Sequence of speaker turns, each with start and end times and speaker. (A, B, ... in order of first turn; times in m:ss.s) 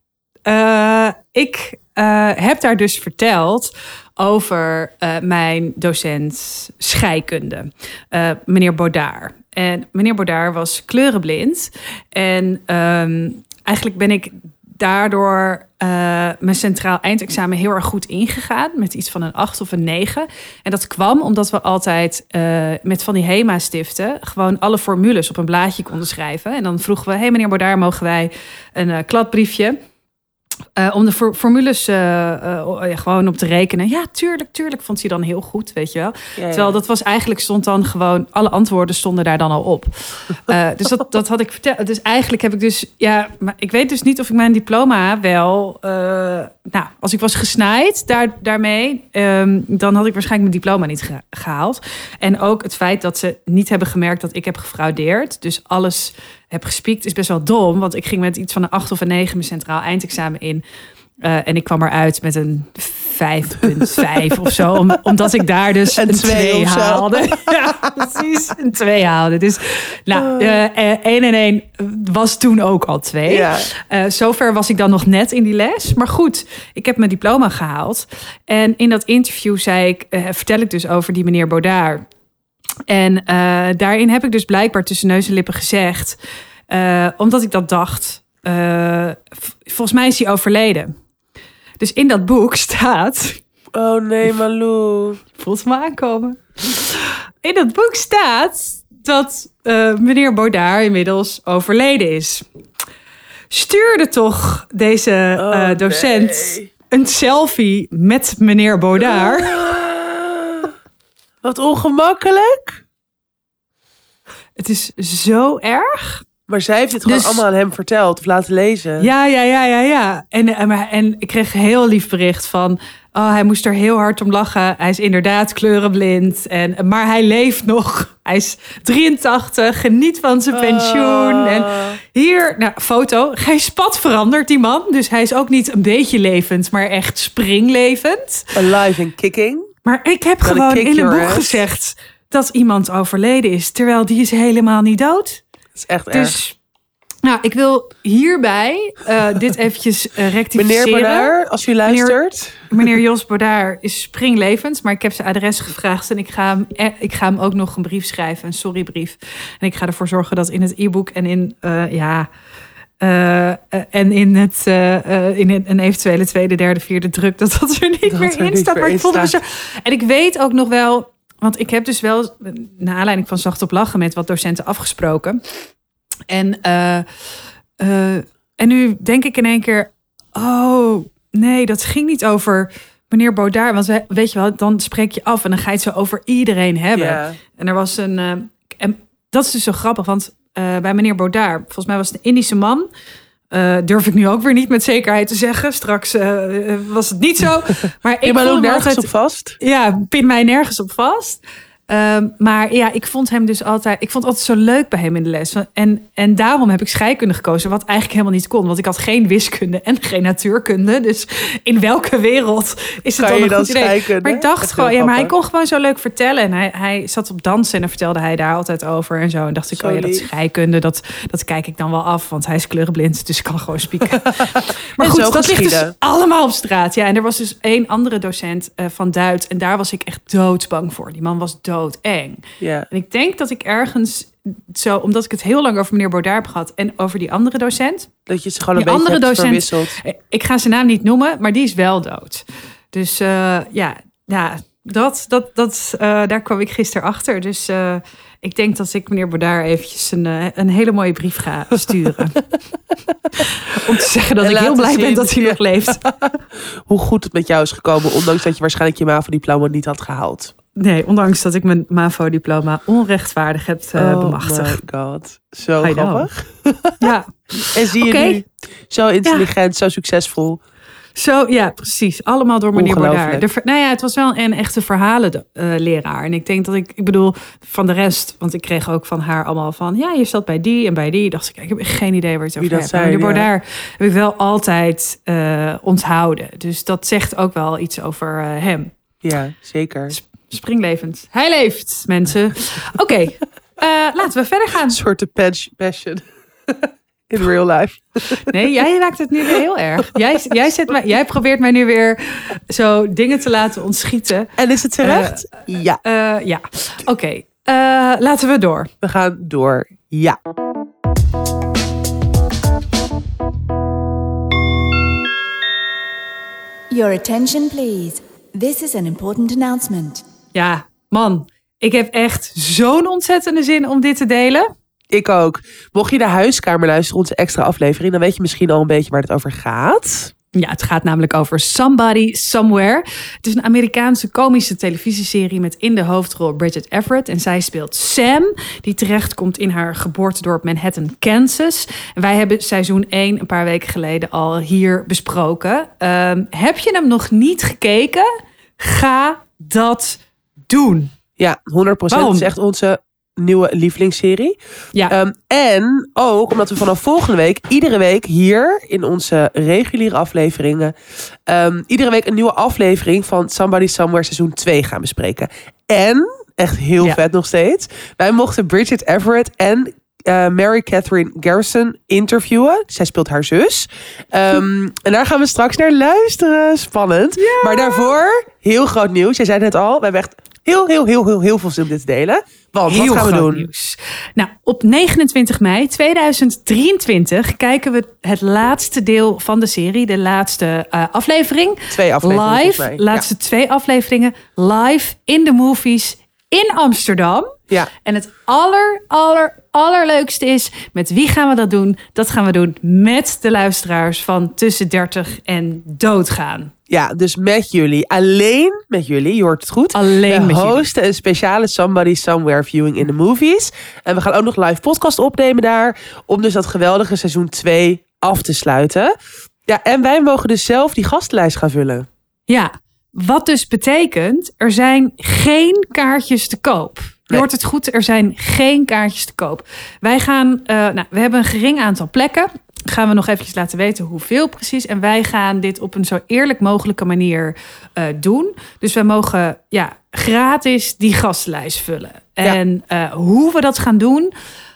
0:00.5-0:29.8 A
0:30.8-1:00.6 A
0:36.4-0:36.8 B
1:01.2-1:22.0 A
1:03.9-1:04.2 B
1:05.9-1:07.6 B
1:10.1-1:10.6 B
1:13.3-1:13.7 B
1:22.9-1:26.2 A
1:26.7-1:30.9 A
1:31.8-1:33.4 A
1:33.8-1:35.2 B
1:35.4-1:42.4 A
1:43.5-1:49.6 A
1:45.4-1:46.7 B
1:49.0-1:50.7 B
1:51.4-1:52.8 B
1:54.6-1:56.2 A
1:56.5-1:59.1 B
1:57.1-1:57.4 A
1:59.0-2:18.5 A
2:10.5-2:12.0 B
2:18.5-2:19.7 B
2:19.8-2:25.4 A
2:20.4-2:21.6 B
2:25.8-2:26.4 B
2:26.1-2:26.6 A
2:27.2-2:31.3 A
2:30.6-2:32.8 B
2:31.8-2:42.3 A
2:43.0-2:55.4 A
2:48.1-2:49.4 B
2:56.3-3:12.9 A
3:06.9-3:07.4 B
3:13.5-3:58.1 A
3:18.2-3:19.6 B
3:33.2-3:35.3 B
3:39.7-3:40.3 B
3:44.3-3:45.9 B
3:52.6-3:52.9 B
3:58.3-4:00.0 B
3:58.8-4:12.4 A
4:13.4-4:16.0 A
4:14.4-4:20.5 B
4:20.8-4:24.8 A
4:24.0-4:27.1 B
4:25.8-4:26.3 A
4:27.0-4:28.4 A
4:27.7-4:30.6 B
4:31.2-4:48.9 A
4:32.8-4:33.4 B
4:42.6-4:43.5 B
4:49.2-4:50.2 B
4:50.1-4:55.0 A
4:54.9-4:58.4 B
4:58.5-5:08.9 A
5:04.6-5:06.0 B
5:09.0-5:10.4 B
5:16.9-5:20.2 C
5:20.5-5:24.7 A
5:25.1-5:30.3 B
5:30.6-5:50.2 A
5:50.7-5:51.1 A
5:51.4-5:54.6 B
5:52.1-5:52.5 A
5:55.1-6:00.9 B
6:01.5-6:23.7 B
6:17.4-6:18.1 A
6:22.9-6:46.7 A
6:31.9-6:33.3 B
6:46.9-6:59.1 B
6:49.9-6:50.8 A
6:59.7-7:02.1 B
7:02.5-7:24.3 A